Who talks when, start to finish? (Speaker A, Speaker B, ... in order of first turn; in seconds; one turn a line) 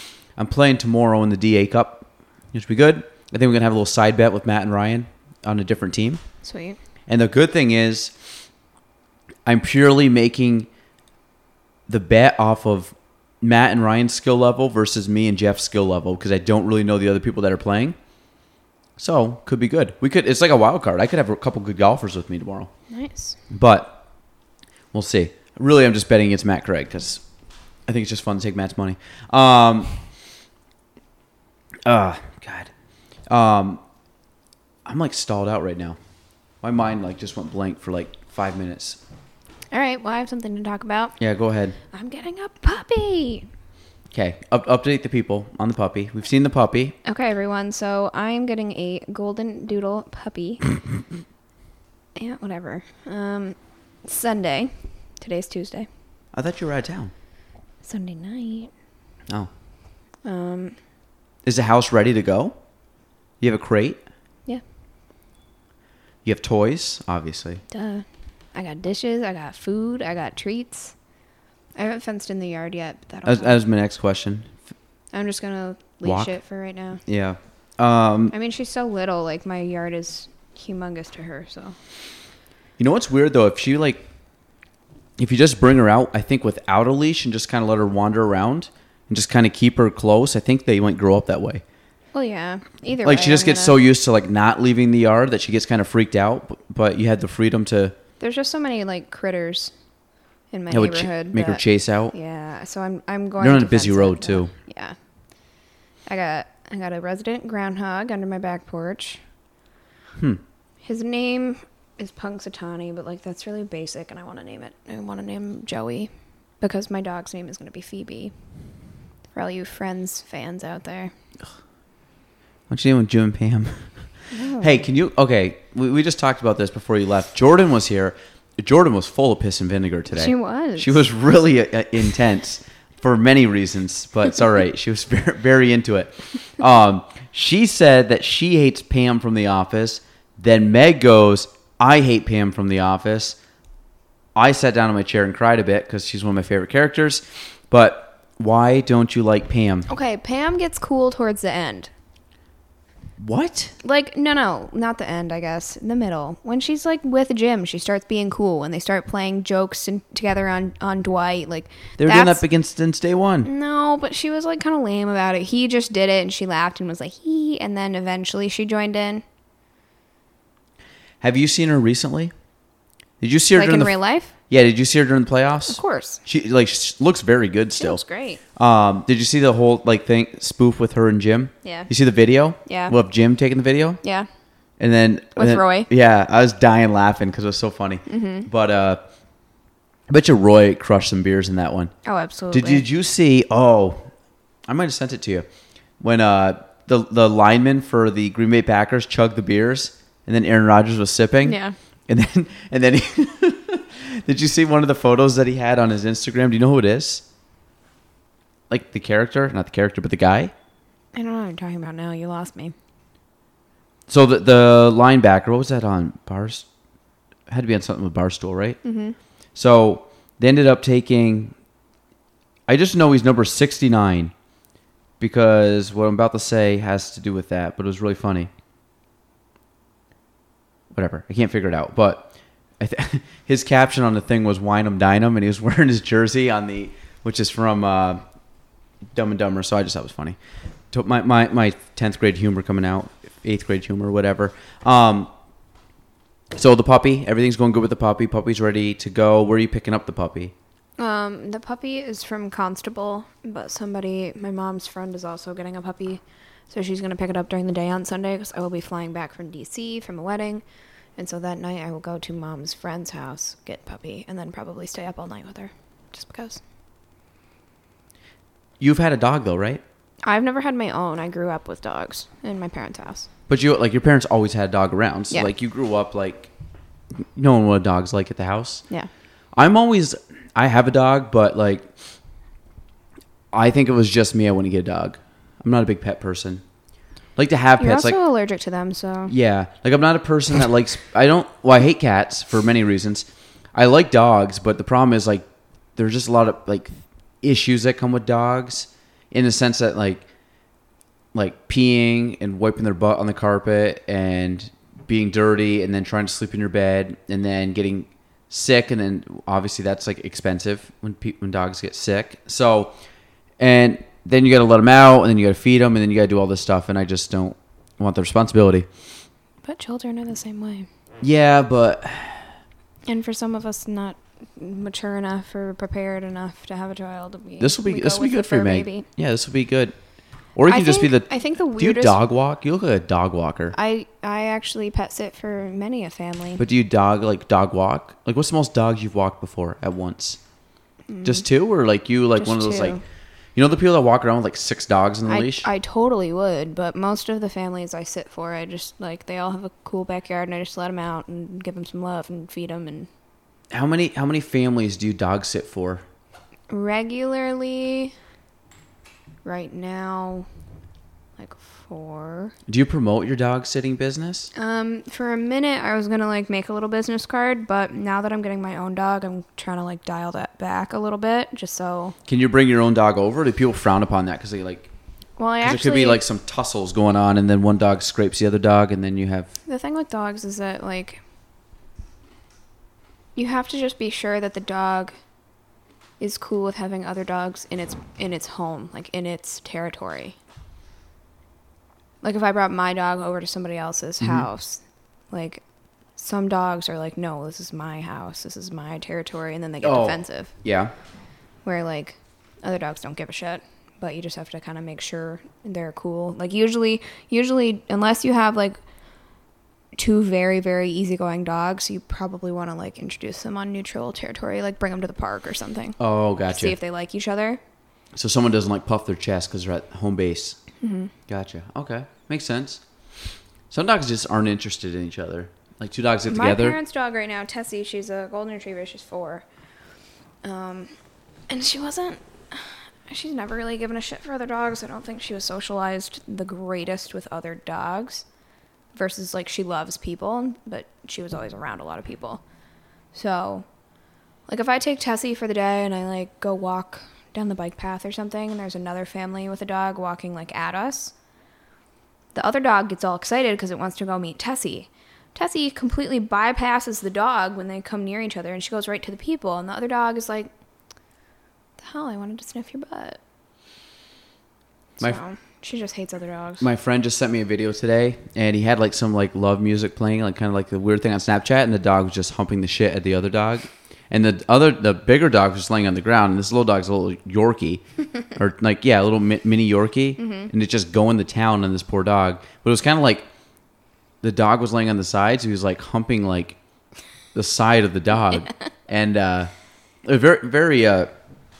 Speaker A: 0.4-6.2
Speaker B: 6.4-6.8
Speaker A: 7.1-8.1
Speaker A: 9.4-10.7
Speaker A: 11.9-17.9
Speaker A: 19.0-22.7
Speaker B: 22.9-23.4
Speaker A: 23.5-24.0
Speaker A: 24.9-27.2
Speaker A: 27.9-29.9
Speaker A: 31.9-32.7
Speaker A: 33.3-33.8
Speaker A: 34.8-36.0
Speaker A: 36.6-39.0
Speaker B: 39.7-41.2
Speaker A: 41.2-41.8
Speaker B: 41.9-43.5
Speaker A: 44.1-46.9
Speaker B: 47.0-50.6
Speaker B: 52.1-55.9
Speaker A: 56.3-57.1
Speaker B: 57.8-58.7
Speaker B: 60.2-60.8
Speaker A: 61.4-62.5
Speaker A: 63.4-64.0
Speaker A: 66.2-67.6
Speaker B: 67.7-70.9
Speaker B: 71.8-73.6
Speaker A: 73.2-74.5
Speaker B: 75.1-77.0
Speaker A: 76.0-76.3
Speaker A: 77.0-78.3
Speaker B: 78.3-81.8
Speaker A: 82.8-84.0
Speaker A: 85.2-91.6
Speaker B: 92.1-93.8
Speaker A: 93.0-98.0
Speaker B: 98.2-99.7
Speaker B: 100.5-105.0
Speaker A: 100.7-102.1
Speaker A: 103.4-104.5
Speaker B: 106.0-109.2
Speaker A: 110.2-110.4
Speaker B: 110.8-118.3
Speaker B: 119.3-121.1
Speaker A: 122.7-123.9
Speaker B: 124.3-124.8
Speaker A: 124.6-143.4
Speaker B: 130.1-131.0
Speaker A: 144.3-149.9
Speaker B: 149.9-151.9
Speaker A: 153.2-153.7
Speaker B: 153.8-162.4
Speaker A: 162.0-163.5
Speaker B: 163.4-169.2
Speaker A: 171.2-172.3
Speaker A: 173.2-173.9
Speaker B: 173.5-174.3
Speaker A: 174.5-178.0
Speaker B: 175.7-176.2
Speaker B: 177.8-178.4
Speaker A: 178.6-184.0
Speaker B: 181.6-181.9
Speaker B: 182.7-182.9
Speaker B: 184.0-184.3
Speaker A: 184.8-189.0
Speaker B: 185.3-185.9
Speaker B: 188.1-188.5
Speaker A: 190.1-191.9
Speaker B: 192.0-192.8
Speaker A: 192.5-194.1
Speaker A: 194.7-195.4
Speaker A: 196.0-201.6
Speaker B: 201.4-201.8
Speaker A: 202.1-207.2
Speaker A: 208.7-210.5
Speaker B: 211.1-212.7
Speaker A: 214.1-216.7
Speaker A: 217.5-218.8
Speaker B: 218.8-219.2
Speaker A: 219.5-221.5
Speaker A: 222.7-224.3
Speaker A: 225.2-228.5
Speaker A: 230.9-238.2
Speaker A: 239.1-240.4
Speaker A: 240.9-245.3
Speaker A: 246.5-250.5
Speaker B: 251.0-260.6
Speaker B: 261.2-266.6
Speaker A: 268.8-269.8
Speaker B: 270.2-273.3
Speaker A: 273.5-276.5
Speaker A: 277.3-278.8
Speaker A: 279.5-281.9
Speaker A: 283.5-286.6
Speaker A: 287.4-288.2
Speaker B: 287.8-289.3
Speaker A: 289.3-300.2
Speaker A: 301.3-312.9
Speaker A: 313.6-318.9
Speaker B: 319.6-320.9
Speaker A: 321.2-322.5
Speaker B: 323.1-329.1
Speaker A: 327.6-329.9
Speaker A: 330.5-333.7
Speaker B: 330.7-332.2
Speaker B: 333.7-336.6
Speaker A: 336.6-340.4
Speaker B: 341.1-341.4
Speaker A: 341.2-343.0
Speaker B: 342.4-343.0
Speaker A: 343.6-345.7
Speaker B: 345.3-353.1
Speaker A: 353.7-356.0
Speaker B: 356.7-358.1
Speaker B: 359.4-360.5
Speaker B: 361.4-362.5
Speaker A: 362.7-364.5
Speaker B: 364.5-372.1
Speaker A: 372.3-374.9
Speaker B: 375.4-376.2
Speaker A: 375.6-379.5
Speaker B: 379.7-381.2
Speaker B: 383.3-385.1
Speaker B: 386.2-390.4
Speaker B: 392.2-395.6
Speaker A: 394.2-394.4
Speaker B: 396.2-400.5
Speaker A: 399.8-400.9
Speaker B: 401.6-408.8
Speaker B: 409.9-417.6
Speaker A: 416.0-416.8
Speaker A: 418.1-420.6
Speaker B: 420.8-421.1
Speaker A: 421.3-422.8
Speaker A: 423.7-426.8
Speaker B: 426.3-429.4
Speaker B: 430.4-430.9
Speaker B: 431.5-438.2
Speaker B: 438.9-442.4
Speaker B: 443.1-443.6
Speaker B: 444.5-451.1
Speaker B: 452.3-460.5
Speaker B: 461.8-463.2
Speaker B: 465.0-466.7
Speaker A: 466.6-477.8
Speaker A: 478.3-483.2
Speaker B: 480.2-480.5
Speaker A: 484.2-486.6
Speaker A: 487.3-489.5
Speaker A: 490.0-491.1